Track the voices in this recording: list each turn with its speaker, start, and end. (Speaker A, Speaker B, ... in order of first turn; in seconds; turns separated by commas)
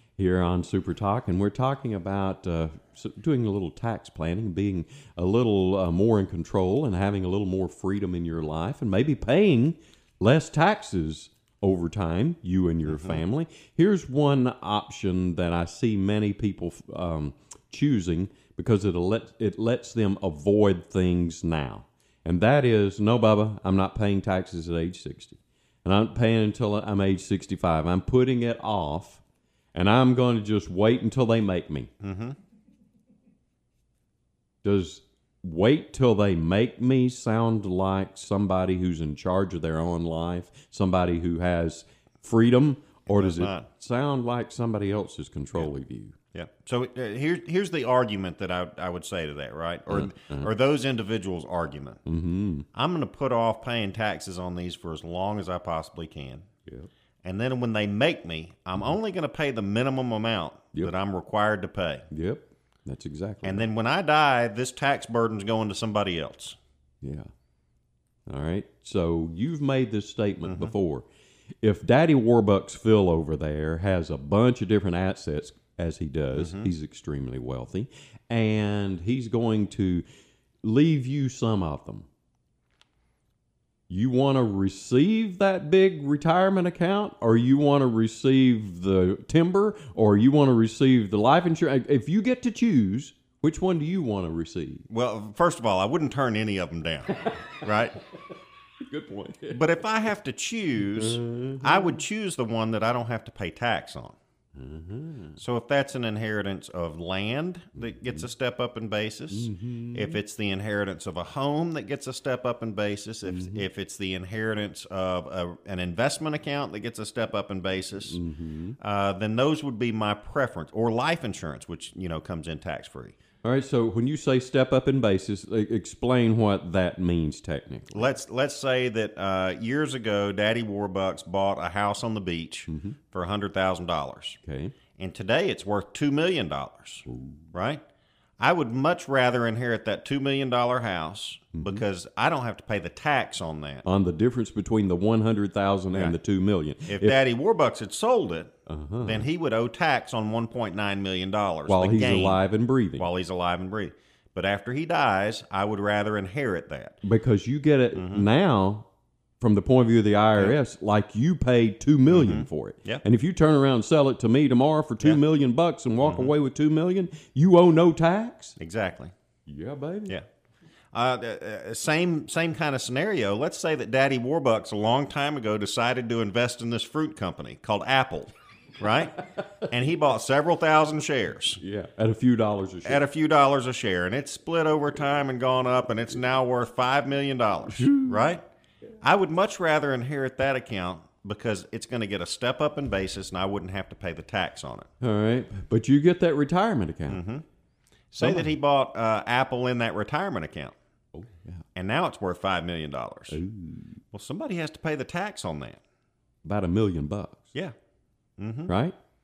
Speaker A: 0.2-29.2, Speaker B: 12.9-13.2, Speaker A: 29.7-31.9, Speaker B: 32.0-32.4, Speaker A: 34.6-46.1, Speaker B: 43.1-43.7, Speaker B: 46.3-52.0, Speaker A: 49.9-50.5, Speaker A: 52.0-52.6, Speaker B: 52.7-56.5, Speaker B: 57.2-62.0, Speaker A: 62.1-63.6, Speaker B: 63.4-66.6, Speaker A: 67.0-67.3, Speaker A: 68.3-71.0, Speaker B: 70.5-70.7, Speaker A: 71.6-80.0, Speaker B: 76.3-76.7, Speaker A: 80.6-82.0, Speaker A: 83.9-94.8, Speaker B: 94.9-98.0, Speaker A: 97.2-97.6, Speaker A: 98.8-99.6, Speaker B: 99.5-104.2, Speaker A: 100.9-102.0, Speaker A: 104.5-105.4, Speaker B: 105.4-118.2, Speaker A: 109.3-110.2, Speaker A: 113.3-113.6, Speaker A: 118.1-118.8, Speaker B: 118.8-123.2, Speaker A: 123.4-128.1, Speaker B: 127.9-134.4, Speaker A: 132.7-133.0, Speaker A: 134.4-134.7, Speaker B: 134.9-137.8, Speaker A: 137.1-137.4, Speaker B: 138.4-143.8, Speaker A: 141.5-141.8, Speaker A: 143.8-147.2, Speaker B: 146.9-152.4, Speaker A: 148.7-149.2, Speaker A: 151.7-153.1, Speaker B: 153.0-157.0, Speaker A: 157.0-158.9, Speaker B: 157.9-158.3, Speaker A: 159.4-168.6, Speaker B: 162.1-163.0, Speaker B: 166.0-166.3, Speaker B: 168.6-169.1, Speaker A: 169.5-170.2, Speaker B: 170.9-181.6, Speaker A: 181.6-183.0, Speaker B: 182.8-188.4, Speaker A: 187.7-188.3, Speaker B: 189.0-194.9, Speaker A: 195.0-197.2, Speaker B: 197.1-197.4, Speaker B: 198.1-200.7, Speaker A: 198.2-198.5, Speaker A: 201.1-201.6, Speaker B: 201.7-203.4, Speaker A: 203.3-204.0, Speaker B: 204.1-205.8, Speaker A: 206.4-207.4, Speaker B: 208.4-208.7, Speaker A: 208.7-208.9